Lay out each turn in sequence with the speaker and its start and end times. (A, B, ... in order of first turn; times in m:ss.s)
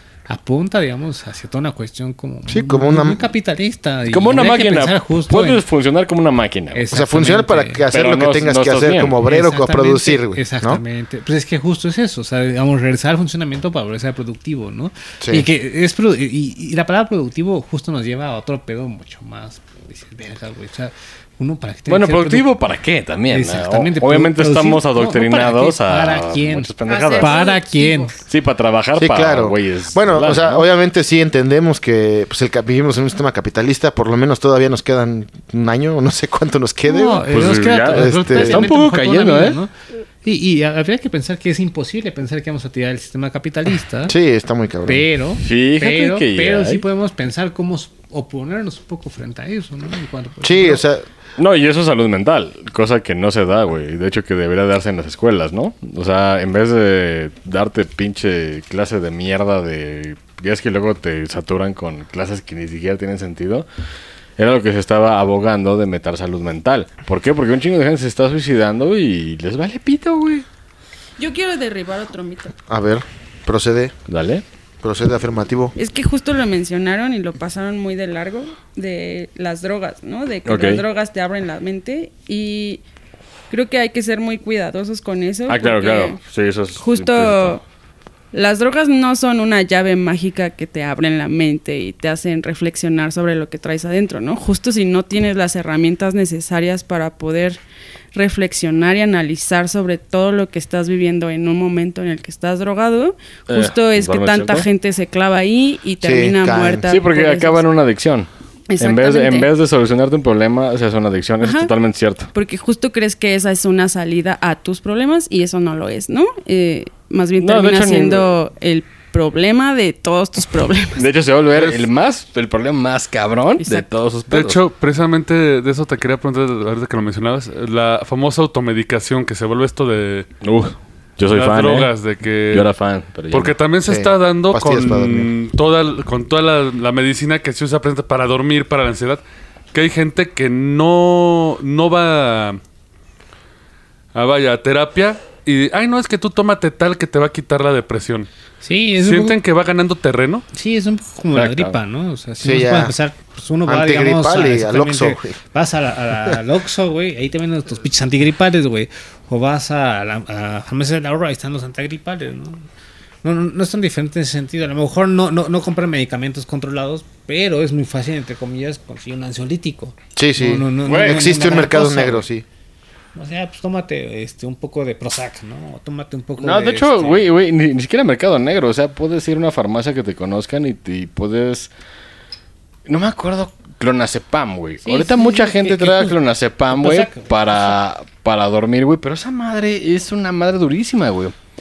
0:00.3-0:05.6 A
0:02.5-0:03.2 B
0:04.1-0:06.8 C
0:06.7-0:07.8 A
0:06.9-0:10.8 B
0:07.9-0:09.2 C
0:09.2-0:22.5 A
0:15.2-0:15.5 B
0:21.9-0:27.4 C
0:23.3-0:28.1 A
0:26.8-0:28.2 D
0:28.3-0:30.6 C
0:28.9-0:37.3 B
0:36.8-0:39.7 A
0:37.3-0:39.6 C
0:37.9-0:38.7 B
0:40.2-0:44.1 A
0:44.1-0:45.0 B
0:44.8-0:50.8 A
0:45.4-0:46.8 C
0:50.4-0:51.0 B
0:51.4-1:03.7 C
1:04.4-1:10.4 C
1:11.2-1:12.6 D
1:12.7-1:13.9 B
1:14.1-1:14.4 C
1:14.8-1:15.7 B
1:15.8-1:22.8 D
1:20.5-1:20.8 C
1:23.5-1:26.2 D
1:25.5-1:27.6 C
1:26.8-1:27.6 D
1:28.3-1:37.6 D
1:38.1-1:47.6 D
1:43.5-1:44.6 C
1:46.0-1:46.9 B
1:46.9-1:52.3 C
1:48.7-1:49.5 D
1:51.4-1:51.7 D
1:52.3-2:01.0 D
1:57.4-1:58.3 C
2:01.0-2:04.6 C
2:01.5-2:01.8 E
2:03.6-2:03.9 D
2:04.3-2:10.3 E
2:10.4-2:11.9 C
2:11.3-2:12.7 E
2:12.5-2:13.6 C
2:13.3-2:19.2 E
2:13.8-2:15.3 B
2:19.7-2:22.6 E
2:24.1-2:28.3 E
2:28.6-2:29.4 A
2:29.0-2:30.4 E
2:30.5-2:42.6 A
2:31.3-2:31.8 C
2:32.4-2:32.9 B
2:33.6-2:35.4 B
2:43.2-2:52.3 A
2:50.2-2:52.4 B
2:50.8-2:51.6 C
2:53.1-2:57.3 A
2:56.4-3:01.7 C
3:02.9-3:11.3 C
3:04.8-3:06.2 A
3:06.7-3:07.7 A